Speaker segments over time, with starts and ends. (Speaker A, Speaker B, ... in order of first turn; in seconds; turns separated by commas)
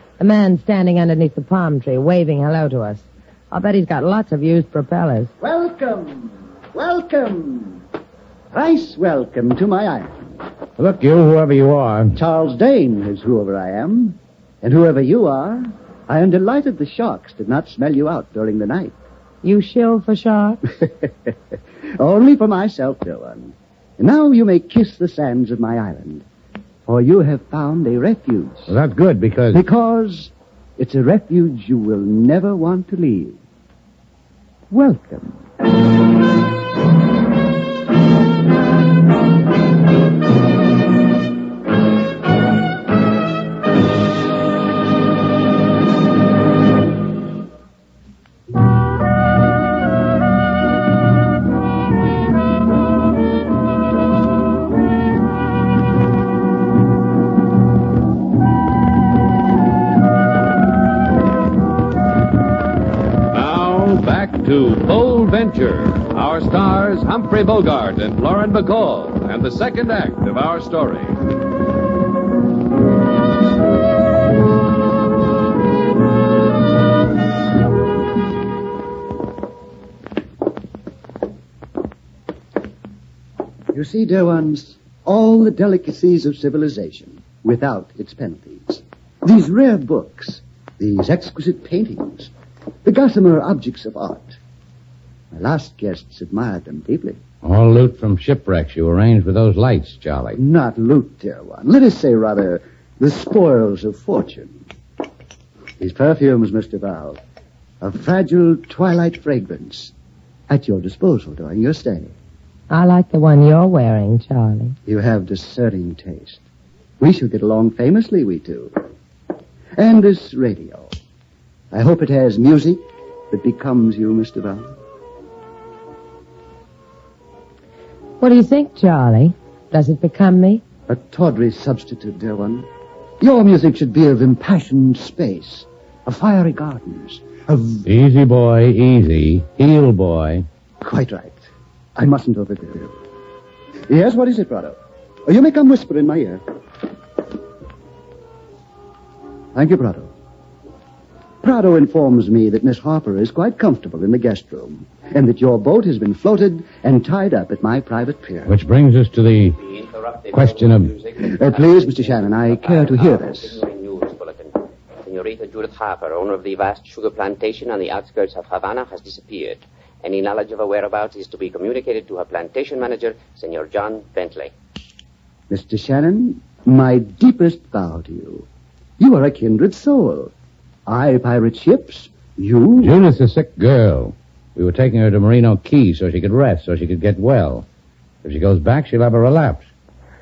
Speaker A: 0.2-5.3, Speaker B: 5.4-7.8, Speaker B: 8.5-10.4, Speaker C: 10.8-12.2, Speaker B: 12.2-18.9, Speaker A: 19.4-20.6, Speaker B: 22.0-26.2, Speaker B: 26.9-28.7, Speaker C: 28.7-29.6, Speaker B: 29.5-33.4, Speaker B: 34.7-35.4, Speaker D: 63.3-71.2, Speaker B: 83.7-92.3, Speaker B: 92.8-94.4, Speaker B: 95.3-97.2, Speaker C: 97.4-100.4, Speaker B: 100.3-104.6, Speaker B: 105.8-107.2, Speaker B: 107.8-109.9, Speaker B: 110.5-112.1, Speaker A: 112.7-114.8, Speaker B: 114.9-116.4, Speaker B: 117.0-118.8, Speaker B: 119.8-120.9, Speaker B: 121.7-124.7, Speaker A: 128.2-130.6, Speaker B: 130.9-132.7, Speaker B: 133.2-137.8, Speaker C: 137.8-140.5, Speaker B: 140.8-143.0, Speaker B: 143.9-146.4, Speaker B: 149.5-150.1, Speaker B: 151.4-158.6, Speaker C: 158.5-159.6, Speaker E: 159.6-174.5, Speaker C: 160.3-160.9, Speaker B: 161.2-163.6, Speaker B: 175.5-178.5, Speaker B: 179.0-180.3, Speaker B: 180.9-182.9, Speaker C: 182.8-187.7, Speaker C: 188.2-189.7